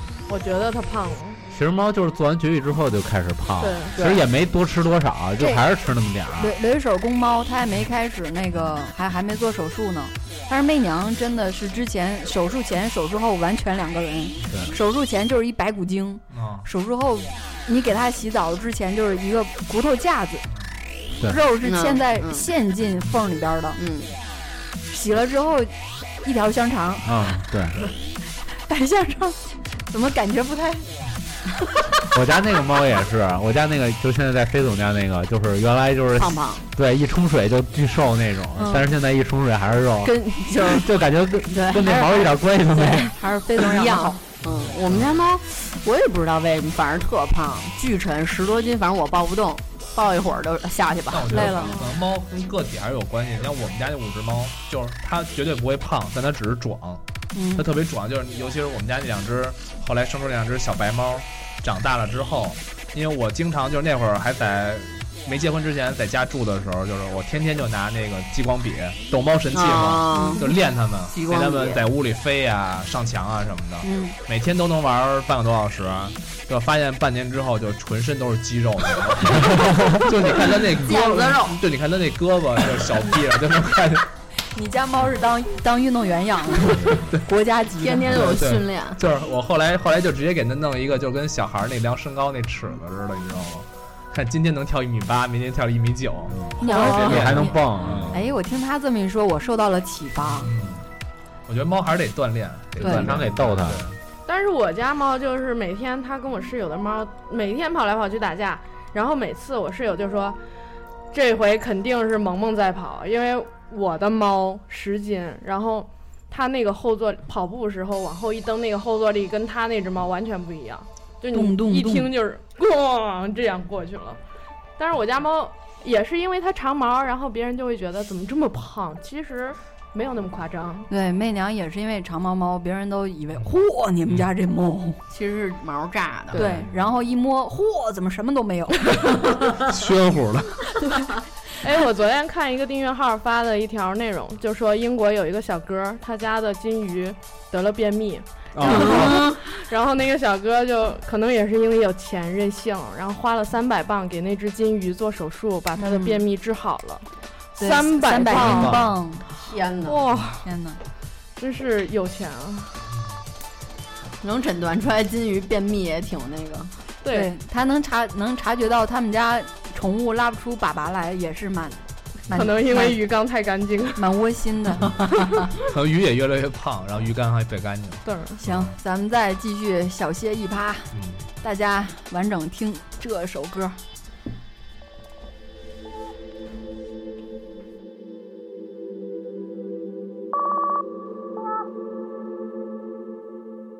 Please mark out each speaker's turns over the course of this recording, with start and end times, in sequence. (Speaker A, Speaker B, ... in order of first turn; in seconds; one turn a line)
Speaker A: 0.3-1.4
Speaker B: 1.5-6.5
Speaker A: 3.6-4.0
Speaker C: 5.4-5.6
Speaker C: 6.4-20.4
Speaker D: 14.4-14.7
Speaker D: 16.3-16.7
Speaker C: 21.2-23.8
Speaker E: 21.6-22.5
Speaker E: 23.8-24.1
Speaker C: 24.9-25.7
Speaker C: 26.2-27.3
Speaker B: 27.0-27.8
Speaker C: 28.6-30.9
Speaker B: 32.1-43.1
Speaker E: 36.2-36.7
Speaker C: 38.6-38.8
Speaker E: 40.0-40.9
Speaker E: 41.5-51.8
Speaker C: 43.1-44.2
Speaker D: 44.4-45.1
Speaker D: 51.1-57.0
Speaker C: 51.3-51.9
Speaker C: 57.3-57.7
Speaker D: 57.5-84.0
Speaker E: 69.5-70.6
Speaker C: 70.1-70.4
Speaker E: 71.1-71.8
Speaker C: 73.8-74.2
Speaker E: 80.8-81.5
Speaker C: 80.8-81.4
Speaker C: 84.5-88.1
Speaker E: 87.8-89.0
Speaker D: 88.1-98.2
Speaker B: 96.5-98.1
Speaker C: 96.6-97.6
Speaker C: 98.1-100.5
Speaker D: 100.3-100.8
Speaker D: 101.5-104.0
Speaker C: 102.8-103.0
Speaker B: 102.8-103.9
Speaker A: 104.3-110.4
Speaker A: 111.1-124.2
Speaker C: 121.3-122.1
Speaker A: 124.8-130.9
Speaker C: 130.9-135.0
Speaker E: 135.1-136.4
Speaker C: 136.3-139.5
Speaker D: 136.4-136.8
Speaker B: 139.5-140.4
Speaker A: 141.6-157.1
Speaker B: 148.6-149.2
Speaker E: 148.6-149.4
Speaker C: 155.8-156.2
Speaker A: 157.6-158.8
Speaker C: 157.6-159.2
Speaker B: 158.3-158.8
Speaker E: 159.3-160.0
Speaker A: 159.8-160.4
Speaker C: 160.4-160.8
Speaker A: 161.4-162.8
Speaker E: 164.2-166.7
Speaker A: 167.0-167.3
Speaker C: 167.1-173.0
Speaker A: 172.3-174.0
Speaker C: 173.9-175.0
Speaker D: 175.5-178.7
Speaker A: 178.1-178.4
Speaker C: 178.4-183.8
Speaker D: 180.9-181.2